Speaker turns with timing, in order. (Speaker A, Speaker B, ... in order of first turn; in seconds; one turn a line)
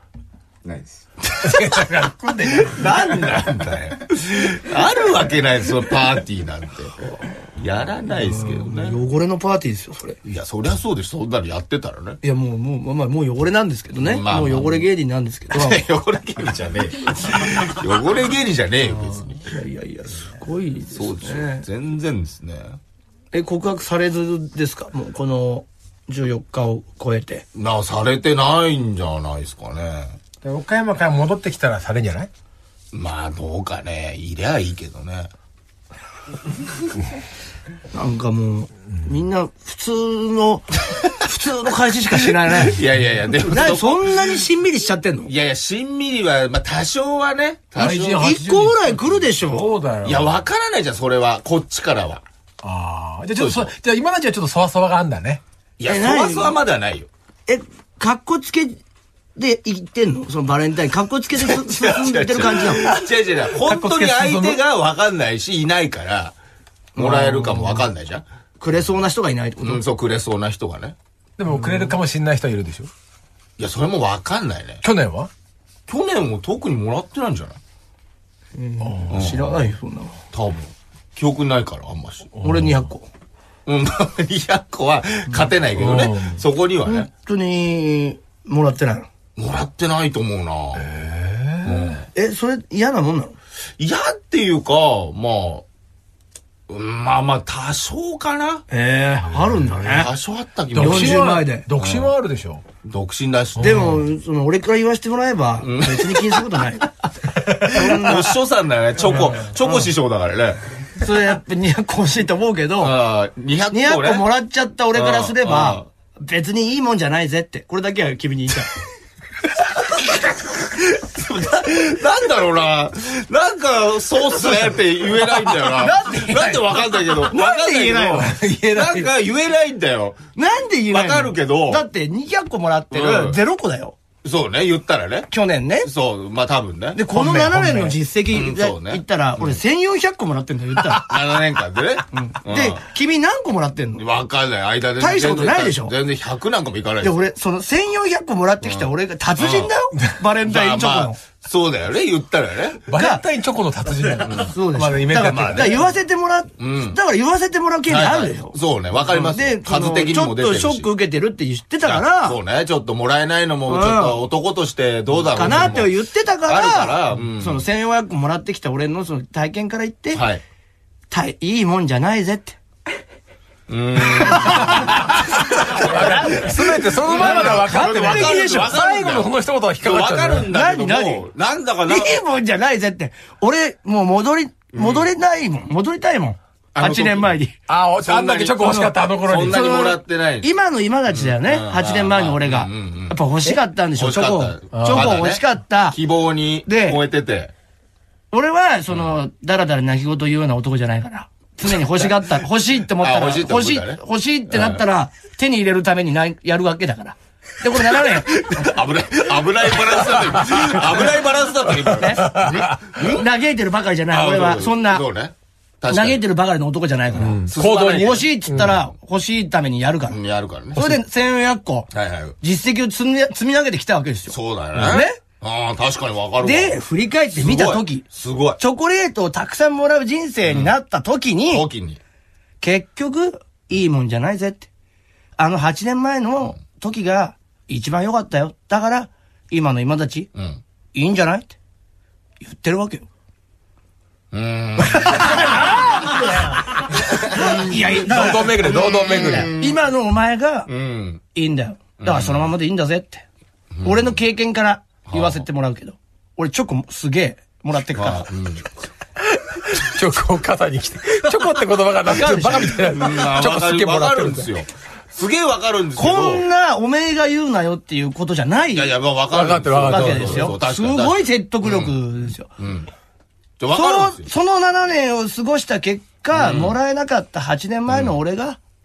Speaker A: 0.6-1.5
Speaker B: 1.4-3.3
Speaker A: 2.6-9.0
Speaker C: 8.1-10.2
Speaker A: 10.2-12.2
Speaker C: 12.2-15.8
Speaker A: 13.9-14.9
Speaker A: 15.5-19.4
Speaker C: 19.4-21.6
Speaker A: 20.9-22.8
Speaker C: 23.3-27.4
Speaker A: 27.5-30.2
Speaker B: 30.4-32.3
Speaker A: 32.9-35.3
Speaker C: 37.9-42.8
Speaker A: 42.5-44.5
Speaker C: 43.4-45.3
Speaker A: 45.2-48.3
Speaker B: 47.8-50.3
Speaker C: 48.2-49.7
Speaker A: 50.0-52.2
Speaker B: 52.6-55.4
Speaker A: 53.4-53.7
Speaker A: 55.8-57.1
Speaker C: 55.8-56.6
Speaker C: 57.5-58.8
Speaker C: 59.4-62.8
Speaker A: 61.3-66.3
Speaker B: 63.5-64.6
Speaker C: 67.0-67.9
Speaker A: 67.0-68.2
Speaker C: 68.6-69.8
Speaker A: 69.6-71.0
Speaker B: 71.4-72.9
Speaker C: 71.5-71.9
Speaker A: 73.6-74.8
Speaker B: 74.8-75.3
Speaker A: 75.9-77.6
Speaker C: 78.5-80.2
Speaker B: 78.8-79.2
Speaker A: 79.1-79.6
Speaker A: 80.3-82.5
Speaker B: 82.3-82.8
Speaker C: 82.4-83.1
Speaker A: 83.7-87.1
Speaker B: 85.8-86.4
Speaker C: 86.8-89.1
Speaker A: 89.4-90.9
Speaker B: 90.7-92.0
Speaker A: 91.6-92.1
Speaker C: 92.1-93.3
Speaker A: 93.8-95.6
Speaker A: 96.7-98.6
Speaker C: 98.7-100.1
Speaker B: 99.3-100.0
Speaker A: 99.9-102.1
Speaker B: 100.7-102.6
Speaker C: 100.8-101.7
Speaker A: 102.8-104.0
Speaker B: 103.6-104.0
Speaker C: 103.6-106.9
Speaker A: 105.6-106.7
Speaker A: 107.4-110.7
Speaker C: 107.6-108.3
Speaker C: 109.1-109.8
Speaker C: 111.0-113.0
Speaker A: 112.8-114.2
Speaker C: 113.7-118.7
Speaker A: 114.9-115.9
Speaker A: 120.0-130.2
Speaker C: 125.5-128.3
Speaker B: 128.1-129.1
Speaker C: 130.3-133.9
Speaker A: 130.9-131.8
Speaker A: 132.9-133.4
Speaker A: 134.2-139.6
Speaker C: 135.3-135.9
Speaker C: 136.9-141.3
Speaker B: 137.1-137.9
Speaker A: 140.8-142.8
Speaker C: 142.1-144.0
Speaker A: 143.9-147.2
Speaker C: 145.0-145.9
Speaker C: 147.0-151.2
Speaker A: 148.6-149.7
Speaker A: 150.4-152.8
Speaker B: 152.9-155.7
Speaker C: 152.9-153.2
Speaker A: 154.2-154.5
Speaker C: 154.5-162.4
Speaker A: 155.1-155.8
Speaker A: 156.6-157.0
Speaker A: 157.9-160.9
Speaker A: 161.8-167.6
Speaker C: 163.7-164.2
Speaker C: 165.2-170.2
Speaker A: 170.1-170.4
Speaker C: 171.1-172.6
Speaker A: 173.7-182.2
Speaker C: 174.3-174.9
Speaker B: 174.6-180.5
Speaker C: 175.7-178.7
Speaker C: 180.5-181.2
Speaker C: 181.9-187.5
Speaker A: 184.7-185.1
Speaker A: 186.7-187.3
Speaker B: 187.7-189.6
Speaker A: 188.0-190.5
Speaker C: 188.8-196.0
Speaker A: 191.1-193.2
Speaker A: 193.9-197.5
Speaker B: 194.7-195.3
Speaker C: 196.6-197.0
Speaker C: 198.3-208.3
Speaker A: 203.0-204.8
Speaker A: 207.7-213.3
Speaker C: 211.9-215.0
Speaker B: 212.2-212.7
Speaker A: 214.1-216.2
Speaker C: 215.9-220.2
Speaker B: 217.2-218.8
Speaker A: 217.2-218.8
Speaker A: 220.1-221.0
Speaker C: 220.7-225.2
Speaker A: 221.9-222.4
Speaker A: 224.3-226.8
Speaker C: 226.4-228.1
Speaker A: 227.3-228.6
Speaker C: 228.6-231.7
Speaker A: 230.4-230.7
Speaker A: 231.5-232.0
Speaker C: 232.6-234.7
Speaker C: 235.4-240.3
Speaker A: 240.3-240.6
Speaker C: 240.9-241.6
Speaker C: 242.4-243.1
Speaker A: 244.3-245.6
Speaker C: 244.9-250.7
Speaker A: 247.1-249.9
Speaker B: 247.9-249.5
Speaker A: 250.7-251.2
Speaker C: 251.3-253.2
Speaker A: 252.0-252.5
Speaker A: 253.7-254.2
Speaker C: 253.8-258.3
Speaker A: 255.1-255.4
Speaker A: 257.9-258.6
Speaker B: 259.3-264.5
Speaker C: 262.1-262.9
Speaker A: 262.8-266.5
Speaker C: 265.9-269.0
Speaker A: 268.7-272.0
Speaker B: 269.3-270.5
Speaker C: 269.9-272.5
Speaker A: 272.6-272.9
Speaker A: 273.6-274.3
Speaker C: 273.7-278.6
Speaker A: 276.3-276.8
Speaker A: 277.9-278.2